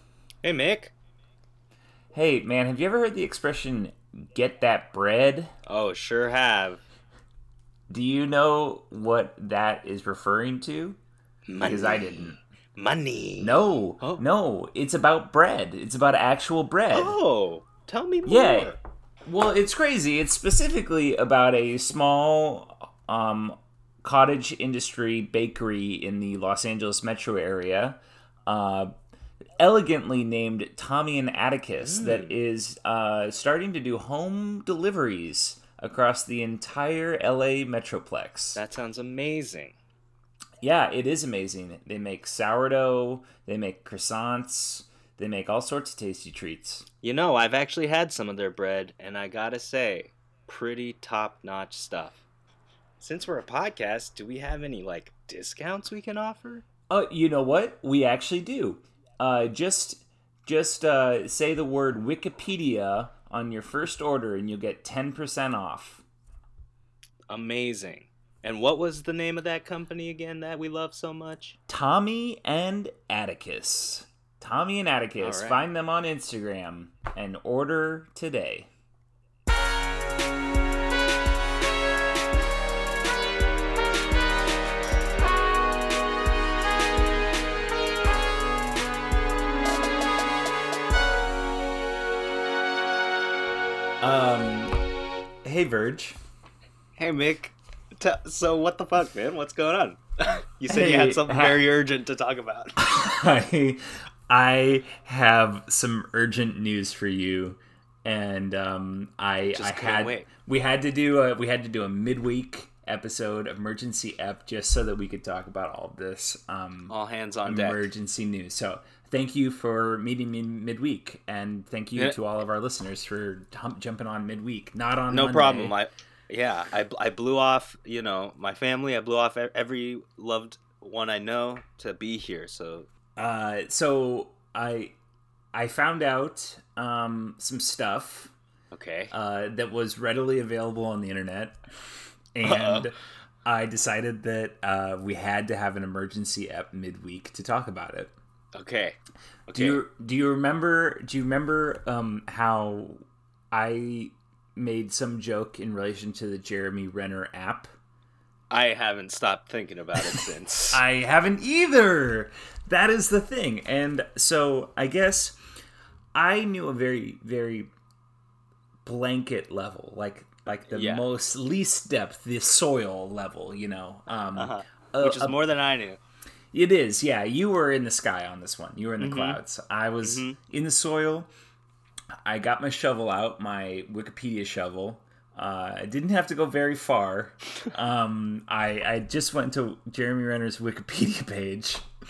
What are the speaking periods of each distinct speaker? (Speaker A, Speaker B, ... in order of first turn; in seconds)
Speaker A: 0.4-0.9, 5.7-6.8, 11.5-14.2, 16.9-18.8, 31.8-32.3, 38.5-39.7, 47.0-52.2, 53.0-56.6, 67.3-71.5, 75.2-75.6, 97.0-102.8, 109.5-110.3, 116.9-117.9, 125.1-132.9, 138.7-139.1, 142.4-142.9, 148.6-149.0, 149.5-149.8, 158.5-160.8, 170.7-171.1, 174.3-176.0, 179.0-179.4, 180.0-180.4
Speaker B: 2.1-5.5, 7.9-11.0, 11.6-12.4, 13.4-17.2, 18.3-28.9, 29.6-38.6, 40.6-46.9, 56.9-66.0, 71.7-78.7, 94.0-94.8, 95.4-96.2, 100.7-101.6, 102.8-125.7, 133.2-134.9, 135.5-138.3, 139.1-141.6, 142.3-148.1, 149.5-157.7, 160.7-165.4, 166.2-167.7, 168.8-175.4, 176.5-181.3, 182.2-191.9